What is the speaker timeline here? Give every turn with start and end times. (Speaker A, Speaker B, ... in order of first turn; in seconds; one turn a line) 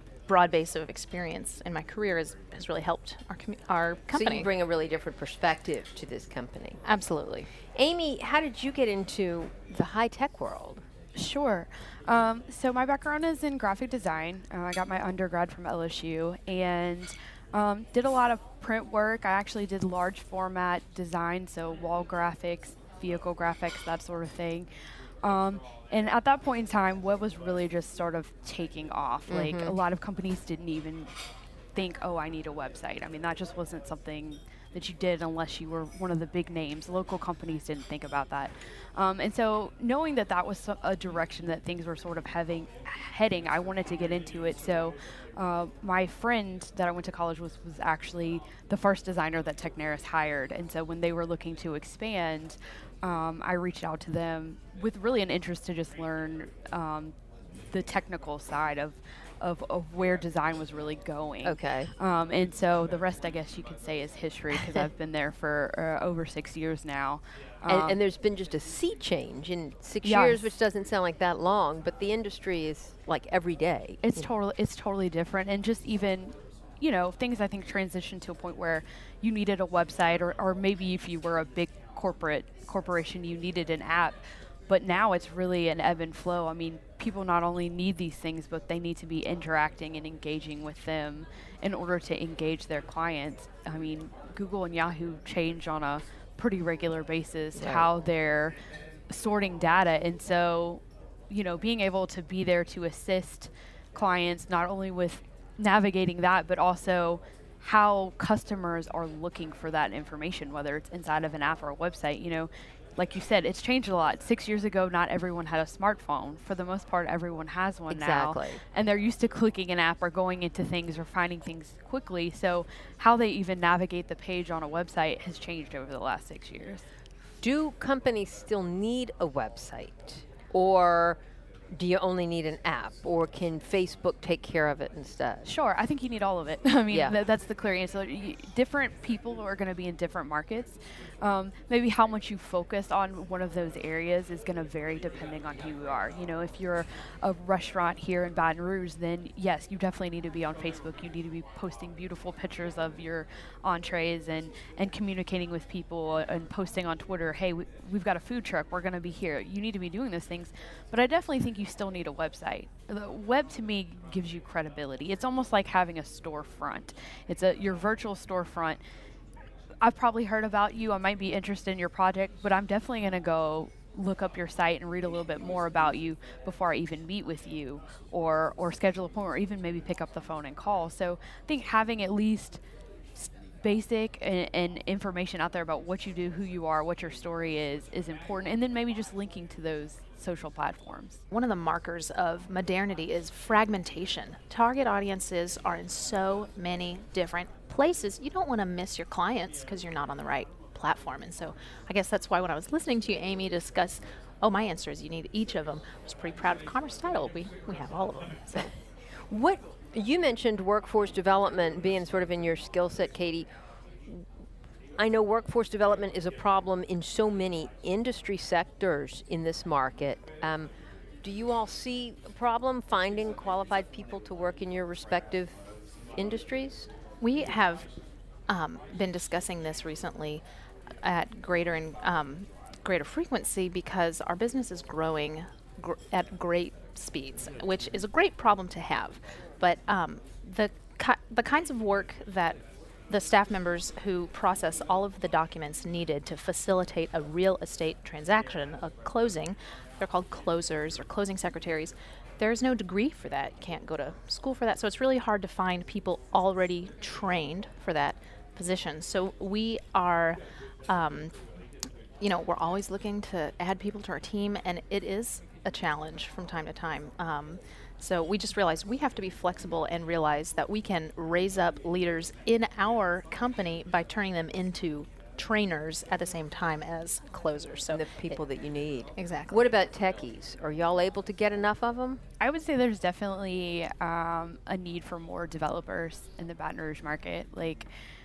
Speaker A: 0.3-4.5
Speaker B: 4.1-6.8
Speaker A: 6.8-7.5
Speaker B: 7.8-10.8
Speaker C: 11.1-24.7
Speaker C: 25.2-31.1
Speaker B: 29.3-29.8
Speaker C: 31.7-57.1
Speaker C: 57.7-68.0
Speaker B: 61.4-61.9
Speaker B: 67.7-74.3
Speaker C: 70.0-70.5
Speaker C: 74.0-98.5
Speaker B: 97.6-97.8
Speaker C: 99.1-126.8
Speaker B: 117.9-118.6
Speaker B: 127.4-131.2
Speaker B: 131.7-135.4
Speaker C: 135.4-168.8
Speaker C: 169.8-182.6
Speaker C: 183.2-191.2
Speaker A: 191.3-208.7
Speaker B: 209.3-213.5
Speaker B: 215.0-220.7
Speaker B: 221.2-225.5
Speaker B: 226.2-226.9
Speaker A: 227.2-227.9
Speaker A: 228.5-230.4
Speaker A: 231.0-261.3
Speaker A: 262.2-278.4
Speaker B: 277.9-282.2
Speaker A: 279.1-279.6
Speaker C: 282.4-287.9